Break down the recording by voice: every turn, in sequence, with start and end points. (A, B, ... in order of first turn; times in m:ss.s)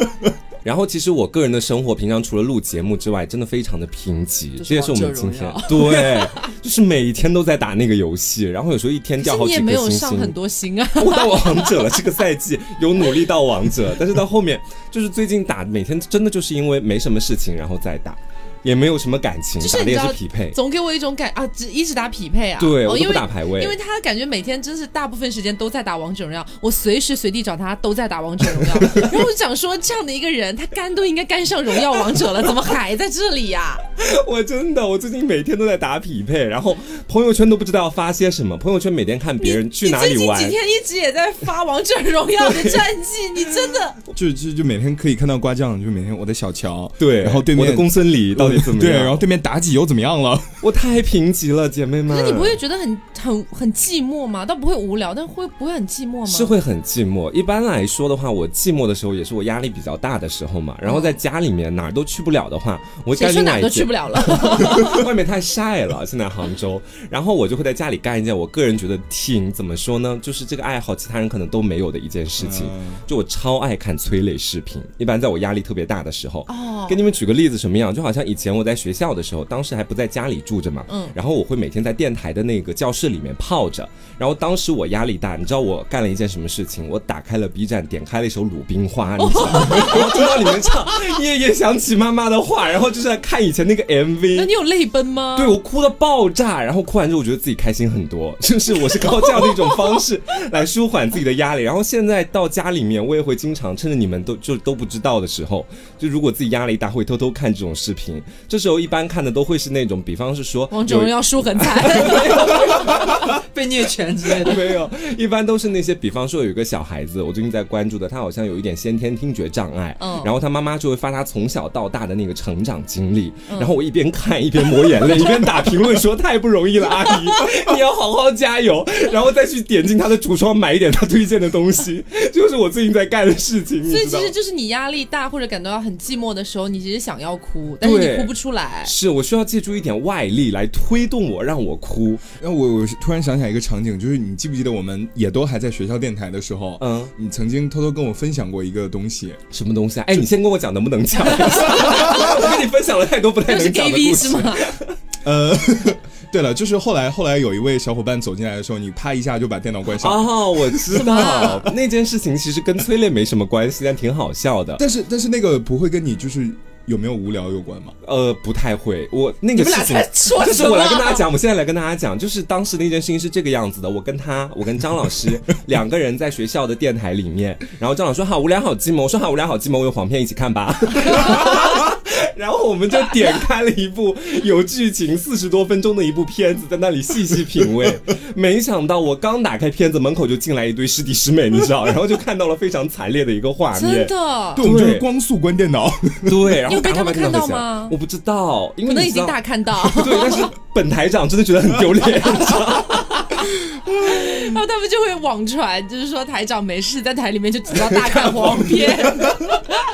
0:00.6-0:10.4 A
0:04.6-0:06.5 B
0:09.2-0:12.0 C
0:11.0-0:20.6 A
0:19.6-0:33.8 C
0:22.6-0:23.8 A
0:34.0-0:40.6 A
0:39.4-0:44.0 C
0:42.4-0:42.8 A
0:44.1-0:50.6 D
0:47.0-0:49.2 A
0:50.6-0:52.6 A
0:52.1-0:56.5 C
0:56.3-1:34.5 A
1:00.8-1:01.2 C
1:03.2-1:05.1 C
1:12.4-1:13.0 D
1:16.5-1:17.0 C
1:20.9-1:21.2 C
1:29.2-1:30.3 C
1:34.3-1:35.6 C
1:35.4-1:53.3 A
1:50.7-1:52.7 C
1:52.9-1:54.8 B
1:54.4-2:14.3 A
2:00.0-2:00.3 C
2:13.8-2:18.9 C
2:17.8-2:18.3 A
2:18.8-2:22.2 A
2:22.4-2:29.4 D
2:26.8-2:27.1 A
2:29.5-2:35.0 A
2:33.5-2:34.7 C
2:35.2-2:41.0 D
2:40.0-2:44.8 A
2:40.9-2:41.7 C
2:44.8-2:48.0 D
2:48.0-3:15.1 A
2:49.6-2:51.3 B
3:13.7-3:14.7 C
3:14.6-3:16.6 D
3:16.3-3:23.3 A
3:16.7-3:18.0 C
3:18.8-3:20.5 C
3:23.9-3:24.2 D
3:24.0-3:29.8 C